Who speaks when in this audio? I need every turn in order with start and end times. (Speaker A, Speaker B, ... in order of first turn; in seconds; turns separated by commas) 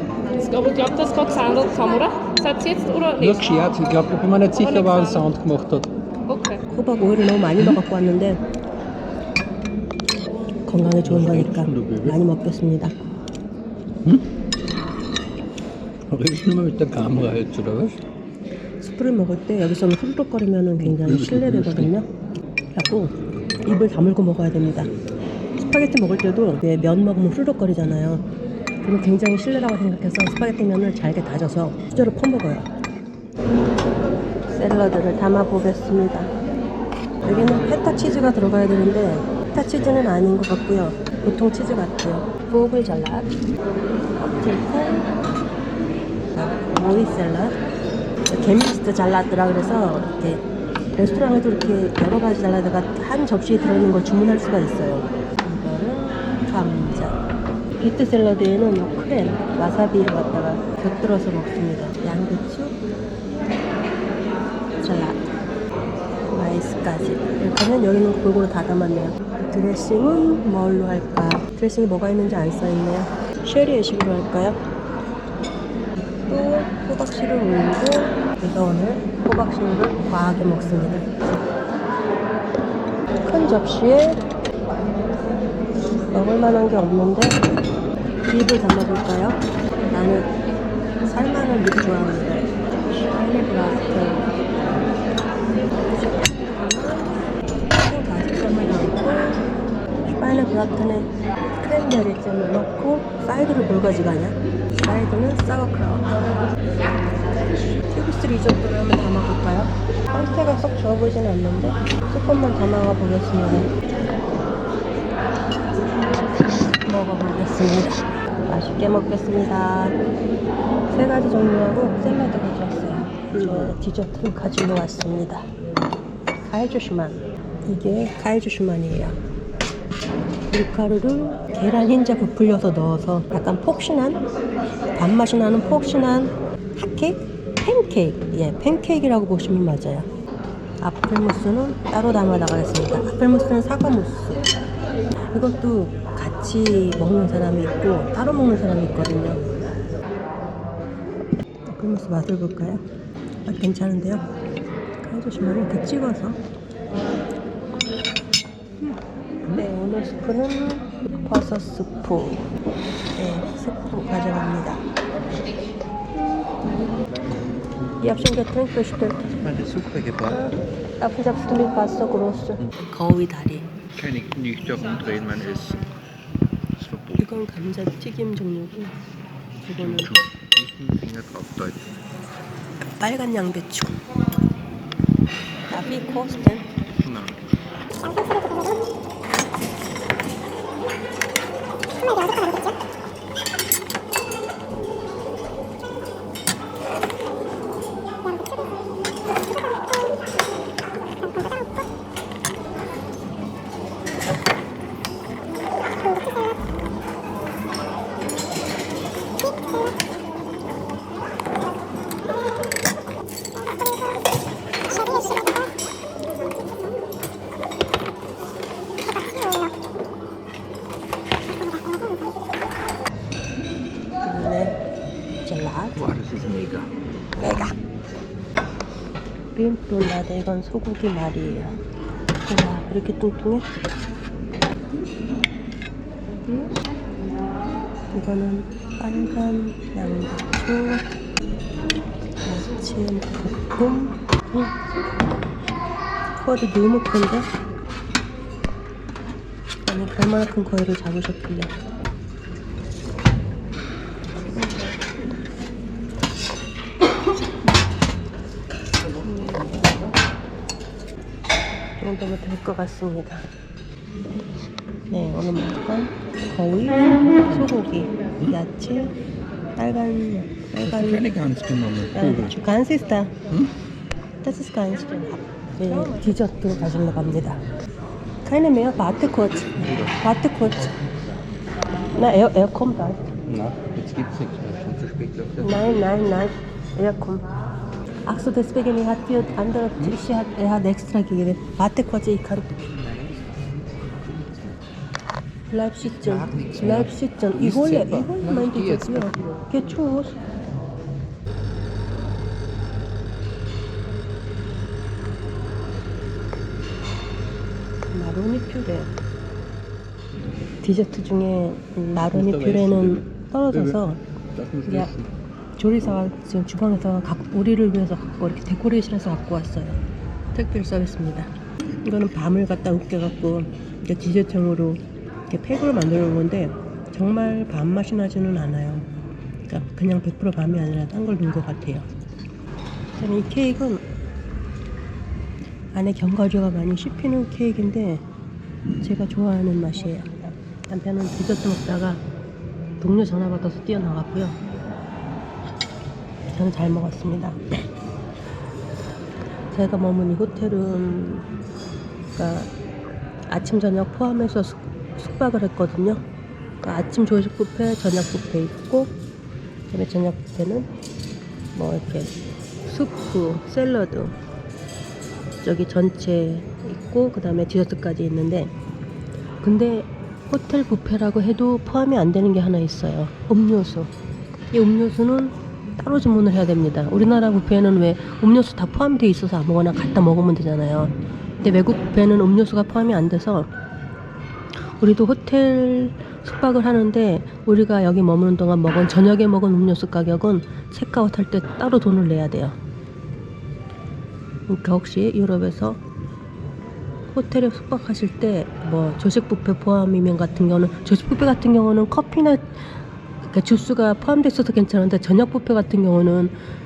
Speaker A: 0.3-3.6, Speaker B: 3.2-5.9, Speaker A: 4.5-5.3, Speaker A: 6.3-6.6, Speaker C: 6.7-8.4, Speaker C: 10.7-13.0, Speaker B: 11.0-12.2, Speaker B: 16.1-17.9, Speaker C: 18.8-22.1, Speaker B: 20.8-21.9, Speaker C: 22.7-24.9, Speaker C: 25.6-28.2, Speaker C: 28.8-32.7, Speaker C: 34.5-36.3, Speaker C: 37.2-43.3, Speaker C: 44.2-45.1, Speaker C: 46.4-47.6, Speaker C: 48.3-50.5, Speaker C: 51.0-57.2, Speaker C: 57.8-62.8, Speaker C: 64.8-65.2, Speaker C: 66.3-74.6, Speaker C: 76.3-81.4, Speaker C: 83.2-84.2, Speaker C: 86.1-87.4, Speaker C: 88.3-90.3, Speaker C: 91.0-94.3, Speaker C: 95.8-99.4, Speaker C: 100.1-106.4, Speaker C: 107.8-113.7, Speaker C: 116.6-120.0, Speaker C: 120.9-125.5, Speaker C: 126.5-129.2, Speaker C: 130.5-134.2, Speaker C: 134.9-140.1, Speaker C: 140.8-144.5, Speaker C: 145.3-149.4, Speaker C: 151.7-152.8, Speaker C: 153.5-154.2, Speaker C: 155.0-156.4, Speaker C: 159.5-162.5, Speaker C: 163.2-164.8, Speaker C: 166.2-166.6, Speaker C: 168.0-169.4, Speaker B: 169.4-170.4, Speaker C: 170.3-173.7, Speaker B: 173.9-175.8, Speaker B: 176.8-177.4, Speaker C: 177.2-179.0, Speaker C: 179.6-180.1, Speaker B: 179.6-181.9, Speaker C: 183.0-184.0, Speaker C: 185.7-186.7, Speaker B: 187.0-187.6, Speaker C: 224.2-224.8, Speaker C: 225.4-226.1, Speaker B: 226.0-226.9, Speaker C: 227.4-227.8, Speaker C: 229.6-231.8, Speaker C: 232.4-233.7, Speaker C: 236.5-236.7, Speaker C: 238.1-241.1, Speaker C: 242.4-244.7, Speaker C: 246.4-247.5, Speaker C: 249.8-251.7, Speaker C: 254.6-255.0, Speaker C: 259.2-259.8, Speaker C: 262.0-263.5, Speaker C: 265.1-269.1, Speaker C: 269.8-271.4, Speaker B: 270.8-272.6, Speaker C: 272.1-273.4, Speaker C: 274.4-277.6, Speaker C: 278.4-281.0, Speaker C: 282.1-283.2, Speaker B: 283.5-286.0, Speaker C: 285.6-287.5, Speaker C: 288.3-292.8, Speaker B: 292.8-294.8, Speaker C: 295.7-300.4, Speaker B: 296.0-299.5, Speaker C: 308.1-309.1, Speaker C: 310.8-314.2, Speaker B: 312.2-314.0, Speaker B: 314.5-315.3, Speaker C: 315.8-320.0, Speaker C: 320.5-321.5, Speaker C: 322.0-329.1, Speaker C: 329.7-332.1, Speaker C: 333.2-334.0, Speaker C: 335.9-338.2, Speaker C: 339.0-342.2, Speaker C: 343.0-344.6, Speaker C: 346.5-347.6, Speaker C: 349.7-351.5, Speaker C: 352.4-352.7, Speaker C: 353.5-356.2, Speaker C: 356.8-359.2, Speaker C: 359.9-360.9, Speaker C: 361.7-362.3, Speaker C: 362.9-364.4, Speaker C: 365.6-368.7, Speaker C: 369.6-374.1, Speaker C: 374.7-383.7, Speaker C: 385.0-392.8, Speaker C: 394.7-396.0, Speaker C: 397.3-402.9, Speaker C: 403.4-406.5